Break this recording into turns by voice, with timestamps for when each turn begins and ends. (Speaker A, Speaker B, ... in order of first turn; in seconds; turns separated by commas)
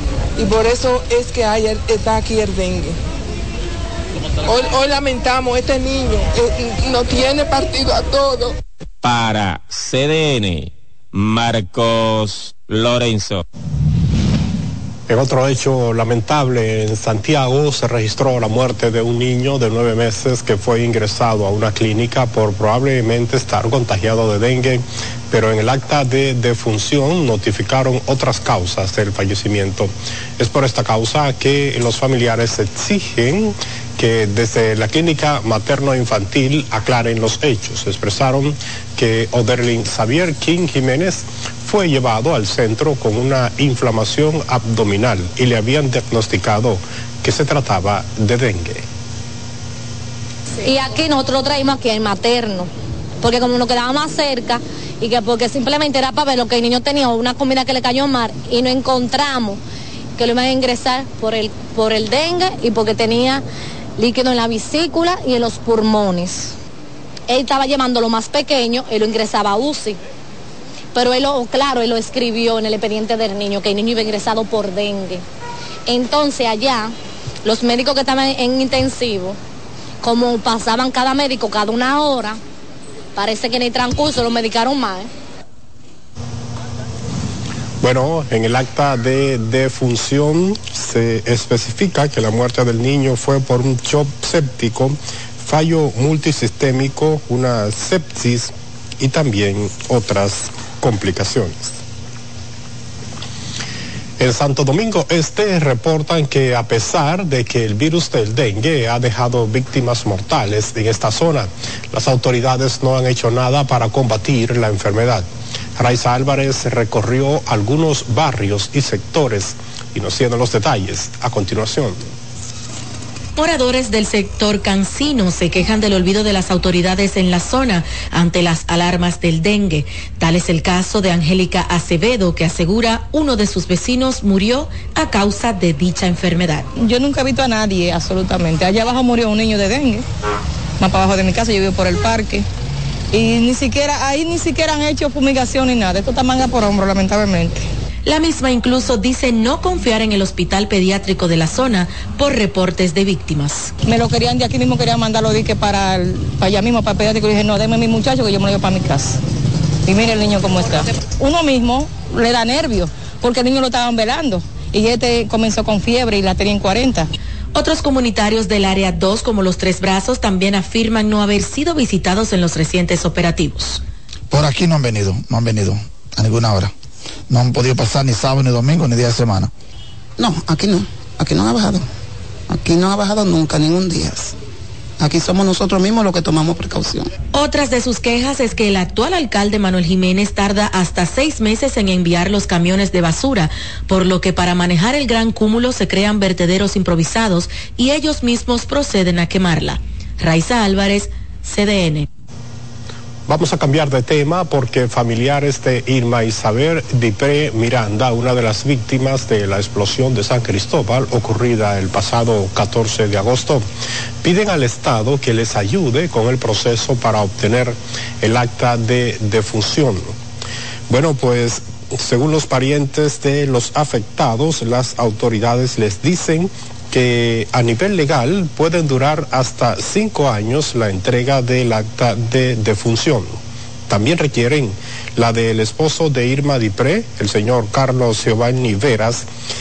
Speaker A: 0.4-3.0, Speaker A: 4.4-8.5, Speaker B: 9.0-13.4, Speaker C: 15.1-48.8, Speaker D: 50.6-52.7, Speaker D: 53.2-59.6, Speaker D: 60.2-63.4, Speaker D: 64.0-66.5, Speaker D: 67.3-70.0, Speaker D: 70.9-75.2, Speaker D: 75.9-76.9, Speaker D: 77.4-79.4, Speaker D: 80.0-82.4, Speaker D: 83.2-85.1, Speaker C: 87.8-101.8, Speaker C: 104.2-122.1, Speaker E: 123.4-136.7, Speaker F: 136.8-140.1, Speaker F: 140.8-142.4, Speaker F: 143.1-147.7, Speaker E: 148.1-153.7, Speaker F: 153.8-159.2, Speaker F: 159.8-167.1, Speaker E: 167.5-173.8, Speaker G: 174.3-176.7, Speaker G: 177.3-179.5, Speaker H: 180.2-181.8, Speaker H: 182.5-184.3, Speaker H: 185.0-187.1, Speaker E: 187.3-202.0, Speaker C: 203.3-213.6, Speaker C: 214.2-220.1, Speaker C: 220.9-239.3